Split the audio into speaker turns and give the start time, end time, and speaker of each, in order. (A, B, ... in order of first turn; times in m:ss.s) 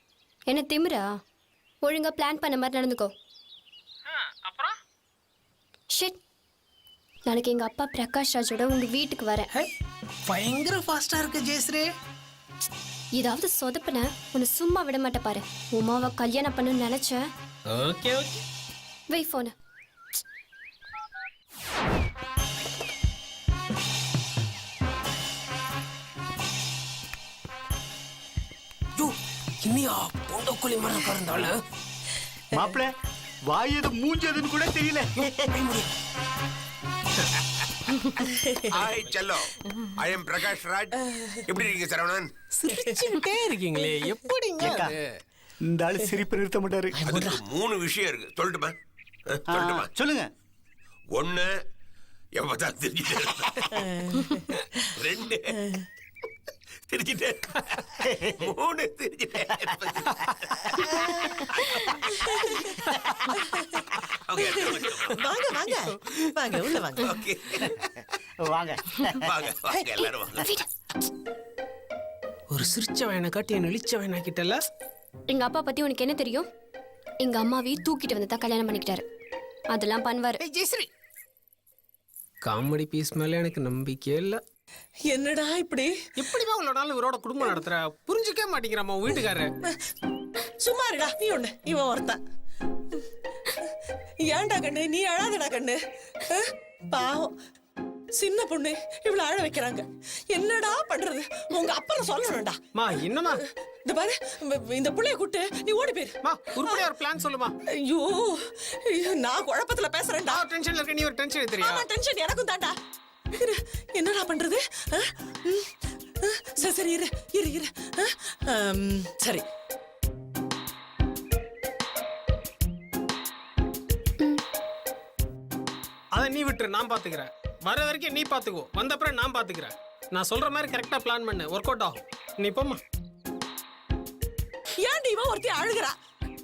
0:00.5-0:01.1 A
0:01.8-0:03.1 A
0:04.1-0:04.8 B
0:05.9-0:06.2 A
0:07.2-0:09.5 A
0:10.3-0:11.9 B
0:13.1-0:17.2 A
0:17.7-0:18.4 B
0:19.1-0:19.5 A
0:29.6-0:31.5 B
0:32.5-0:32.9 C
0:33.5-0:35.6 C
0:38.3-0:38.7 D
0:38.7-0:42.3 E
0:42.5-0:45.2 B
0:44.6-0:44.9 C
0:45.6-0:47.3 C
0:47.0-0:47.4 D
0:47.0-0:48.7 E
0:49.5-0:49.9 E
0:49.5-0:50.3 C
0:51.1-0:51.5 E
0:52.4-0:53.8 E
0:53.8-0:54.6 D
0:54.9-0:55.5 E
0:56.9-1:00.8 E
1:01.6-1:02.1 E
1:02.2-1:02.7 D
1:04.3-1:05.2 E
1:04.4-1:07.2 D
1:07.0-1:07.6 E
1:08.4-1:09.2 C
1:09.1-1:10.5 E
1:12.5-1:14.6 B
1:15.3-1:16.5 A
1:17.2-1:19.0 A
1:19.7-1:20.4 A
1:20.4-1:20.9 B
1:22.4-1:24.4 B
1:25.1-1:25.9 D
1:26.2-1:29.5 B
1:30.6-1:32.2 D
1:32.9-1:37.3 D
1:38.1-1:42.6 D
1:42.8-1:43.4 B
1:43.8-1:46.9 D
1:46.2-1:47.5 B
1:47.8-1:50.4 D
1:50.3-1:51.8 B
1:51.6-1:52.7 D
1:53.3-1:59.4 D
2:06.1-2:12.8 B
2:14.8-2:15.9 D